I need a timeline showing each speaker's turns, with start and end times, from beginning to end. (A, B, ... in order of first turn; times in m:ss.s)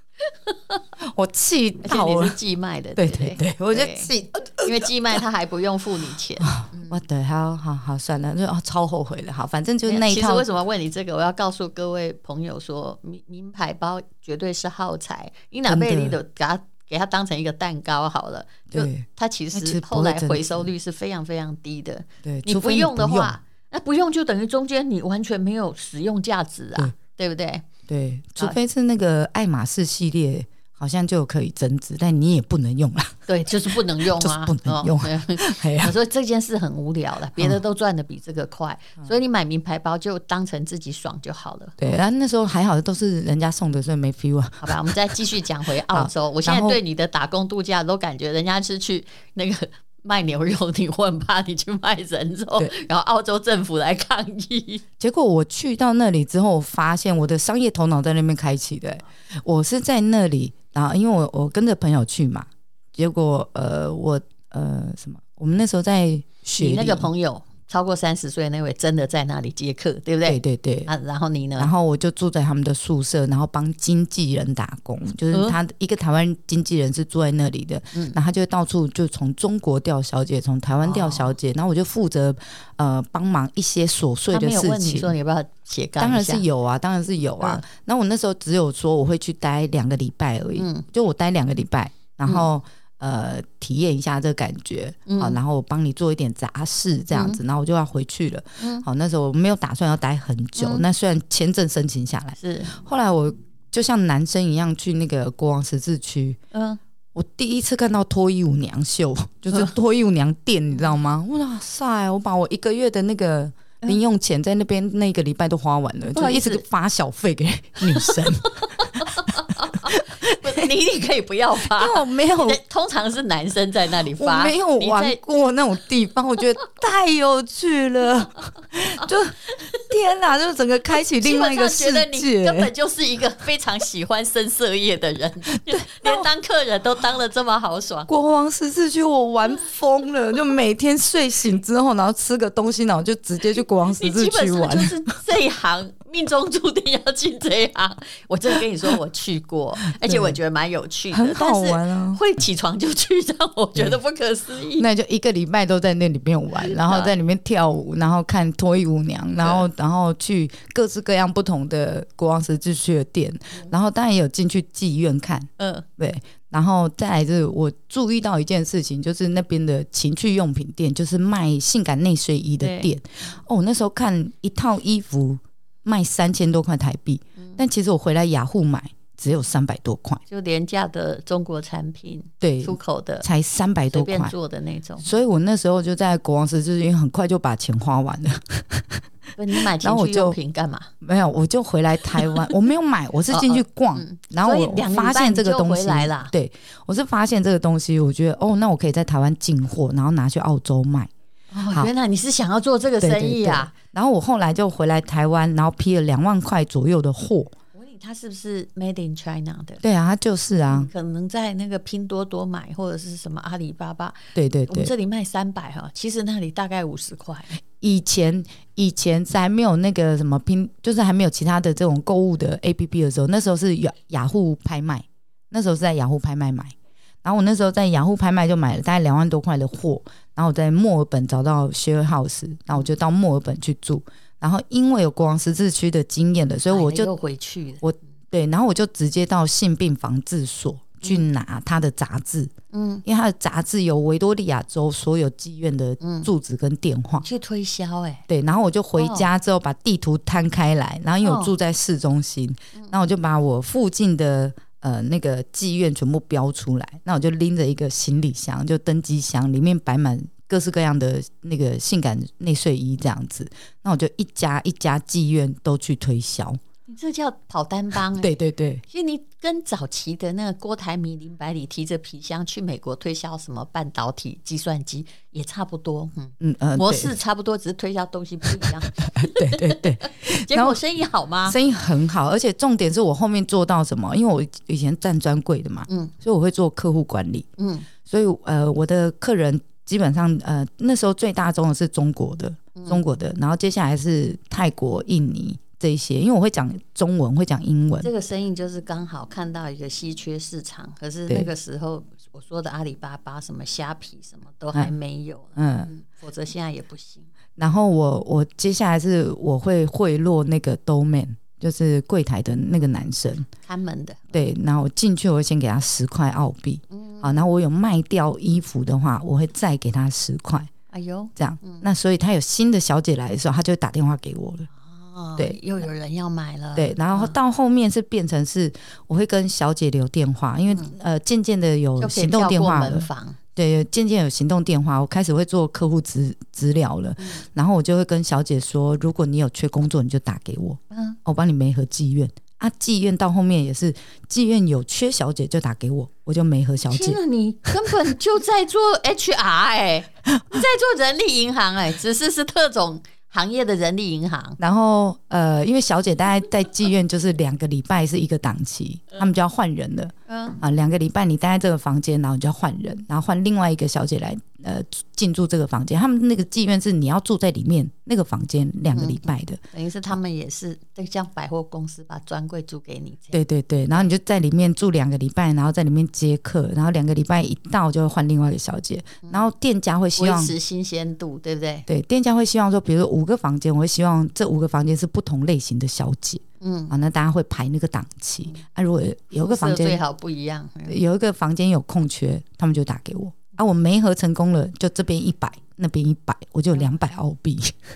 0:00.5-0:00.8 A
0:01.0-0:02.4 B
0:01.8-0:07.0 A
0:03.0-0:05.2 B
0:06.4-0:10.4 B
0:09.8-0:27.7 A
0:15.7-0:16.2 B
0:18.7-0:20.7 B
0:22.2-0:23.4 B
0:27.9-0:33.2 B
0:33.3-0:41.8 A
0:34.0-0:35.9 B
0:41.8-0:44.9 B
0:44.6-0:54.8 A
0:45.9-0:46.8 B
0:55.0-1:07.1 B
1:06.6-1:11.7 A
1:10.2-1:10.9 B
1:11.6-1:25.1 B
1:15.3-1:15.6 A
1:20.8-1:21.3 A
1:24.3-1:26.4 A
1:26.0-1:46.4 B
1:30.6-1:30.8 A
1:35.1-1:35.4 A
1:37.1-1:37.4 A
1:38.6-1:38.9 A
1:40.6-1:40.9 A
1:42.4-1:42.7 A
1:46.5-1:46.8 A
1:47.1-2:00.6 B
1:56.1-1:56.6 A
1:57.9-2:05.2 A
2:01.6-2:02.6 B
2:04.2-2:12.7 B
2:11.2-2:18.1 A
2:15.6-2:16.3 B
2:18.1-2:25.1 B
2:24.0-2:34.9 A
2:30.0-2:30.4 B
2:31.1-2:32.2 B
2:34.8-3:00.2 B
2:36.6-2:37.1 A
2:39.4-2:39.7 A
2:45.6-2:45.9 A
2:52.6-2:52.9 A
3:00.3-3:03.3 A
3:02.4-3:04.3 B
3:03.9-3:05.1 A
3:05.0-3:09.0 B
3:09.4-3:10.9 A
3:09.6-3:10.4 B
3:11.0-3:21.1 B
3:13.3-3:16.3 A
3:21.5-3:23.7 A
3:23.0-3:27.5 B
3:27.8-3:29.8 A
3:29.8-3:30.9 B
3:30.7-3:37.6 A
3:34.4-3:34.9 B
3:37.8-3:57.1 B
3:56.7-3:57.8 A
3:57.8-4:02.5 B
4:02.7-4:03.0 A
4:03.0-4:07.2 B
4:06.0-4:06.3 A
4:07.2-4:08.2 A
4:08.3-4:26.6 B
4:09.0-4:09.3 A
4:11.2-4:11.5 A
4:26.9-4:28.3 A
4:28.2-4:28.8 B
4:28.9-4:41.6 A
4:36.4-4:37.1 B
4:38.4-4:40.8 B
4:41.5-4:47.5 B
4:45.9-4:46.1 A
4:47.6-4:47.9 A
4:48.0-4:58.1 B
4:52.8-4:53.0 A
4:58.0-5:07.3 A
5:05.6-5:05.9 B
5:07.6-5:13.5 B
5:13.6-5:14.3 A
5:14.3-5:20.7 B
5:16.9-5:17.4 A
5:20.9-5:21.9 A
5:21.4-5:24.7 B
5:24.8-5:27.4 A
5:26.8-5:47.2 B
5:32.0-5:33.4 A
5:40.9-5:41.2 A
5:46.9-5:54.6 A
5:54.6-6:09.6 B
6:00.3-6:00.6 A
6:08.9-6:09.2 A
6:09.7-6:13.4 A
6:13.3-6:20.5 B
6:20.2-6:21.9 A
6:21.9-6:30.0 B
6:26.6-6:26.9 A
6:29.3-6:31.0 A
6:30.9-6:37.8 B